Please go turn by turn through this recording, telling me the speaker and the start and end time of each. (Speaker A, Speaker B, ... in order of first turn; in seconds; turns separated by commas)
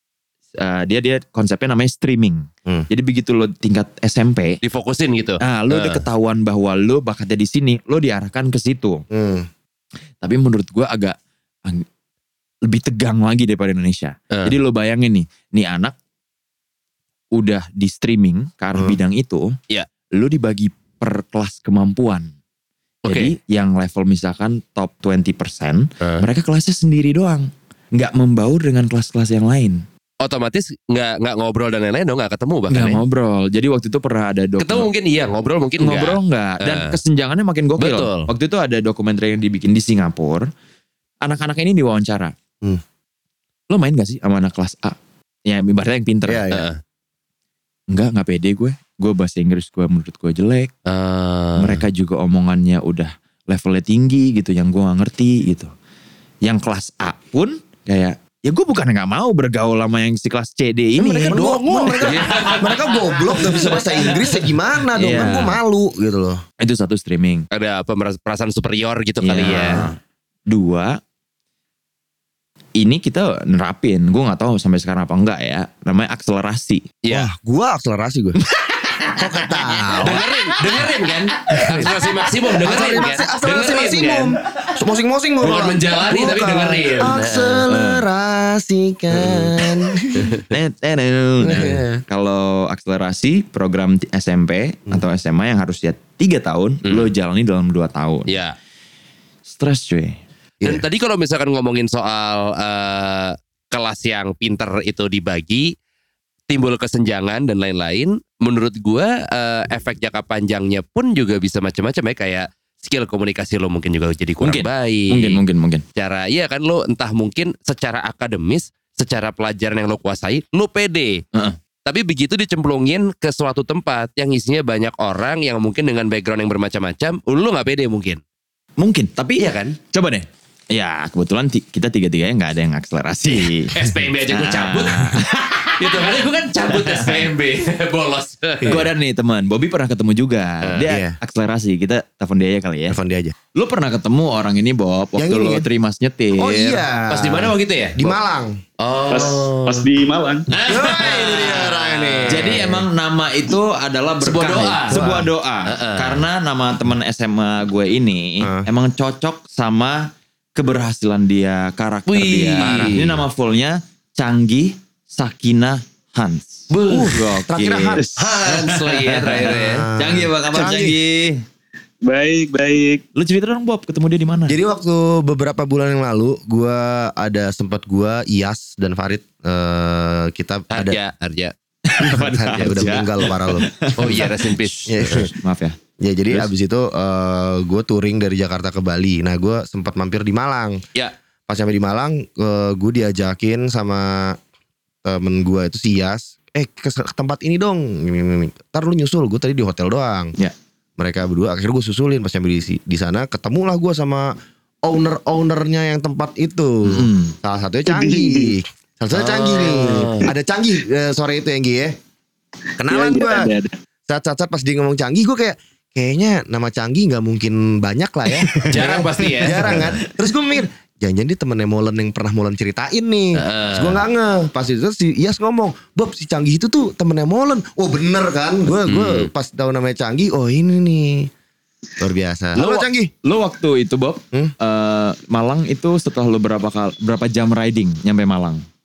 Speaker A: 0.6-4.6, Speaker B: 4.6-6.0, Speaker A: 5.4-9.0, Speaker C: 9.1-9.5, Speaker A: 10.2-11.8, Speaker A: 12.6-15.9, Speaker A: 17.3-19.5, Speaker A: 20.1-22.3, Speaker B: 23.1-23.3, Speaker A: 23.1-29.8, Speaker B: 30.2-33.0, Speaker A: 32.7-34.9, Speaker B: 34.6-37.0, Speaker A: 35.8-40.5, Speaker B: 37.8-38.3, Speaker A: 41.2-42.3, Speaker A: 43.7-46.5, Speaker C: 46.2-46.6, Speaker B: 46.5-46.8, Speaker A: 47.9-50.7, Speaker B: 50.9-51.8, Speaker A: 51.6-55.7, Speaker A: 56.4-62.5, Speaker C: 61.0-66.4, Speaker B: 62.0-64.1, Speaker A: 64.9-65.6, Speaker A: 66.6-67.4, Speaker B: 67.5-69.8, Speaker A: 69.2-69.9, Speaker C: 69.5-69.9, Speaker A: 70.5-71.0, Speaker A: 72.8-76.9, Speaker B: 77.0-77.3, Speaker C: 77.1-78.4, Speaker A: 78.6-79.2, Speaker C: 79.2-80.2, Speaker B: 80.0-84.3, Speaker A: 80.0-81.9, Speaker C: 82.6-90.3, Speaker B: 85.4-87.7, Speaker B: 90.2-90.4, Speaker A: 90.5-98.3, Speaker C: 91.4-92.0, Speaker B: 96.8-97.1, Speaker B: 98.3-98.5, Speaker A: 99.5-100.2, Speaker B: 100.6-105.7, Speaker B: 106.5-115.4, Speaker A: 114.4-115.8, Speaker B: 116.0-121.2, Speaker B: 121.8-128.2, Speaker A: 128.8-136.1, Speaker B: 129.4-129.8, Speaker B: 133.7-135.2, Speaker B: 135.8-138.8, Speaker A: 136.6-137.3, Speaker A: 138.6-143.0, Speaker C: 140.9-141.2, Speaker C: 142.9-143.3, Speaker A: 143.5-146.8, Speaker C: 145.2-145.7, Speaker C: 146.3-148.6, Speaker B: 147.1-148.1, Speaker B: 148.8-149.8, Speaker D: 149.1-150.5, Speaker B: 150.5-152.6, Speaker C: 150.7-152.8, Speaker A: 152.3-171.4, Speaker B: 154.2-155.0, Speaker C: 154.9-155.3, Speaker B: 155.7-156.2, Speaker C: 158.4-158.7, Speaker B: 162.1-163.2, Speaker B: 166.7-167.1, Speaker C: 166.9-168.0, Speaker B: 168.0-169.8, Speaker C: 169.4-171.0, Speaker D: 172.1-173.0, Speaker A: 173.1-174.6, Speaker C: 174.5-181.0, Speaker B: 180.7-181.5, Speaker A: 181.9-185.8, Speaker C: 182.0-184.2, Speaker B: 183.9-184.9, Speaker C: 184.9-185.3, Speaker C: 186.0-190.8, Speaker C: 191.5-194.4, Speaker C: 195.0-200.3, Speaker C: 201.0-211.9, Speaker A: 206.8-207.3, Speaker D: 207.9-208.5, Speaker B: 209.2-210.2, Speaker C: 212.8-213.5, Speaker D: 212.9-213.7, Speaker C: 214.1-231.3, Speaker B: 218.6-219.8, Speaker B: 223.3-224.0, Speaker B: 228.8-229.3, Speaker C: 232.0-233.1, Speaker A: 232.6-238.6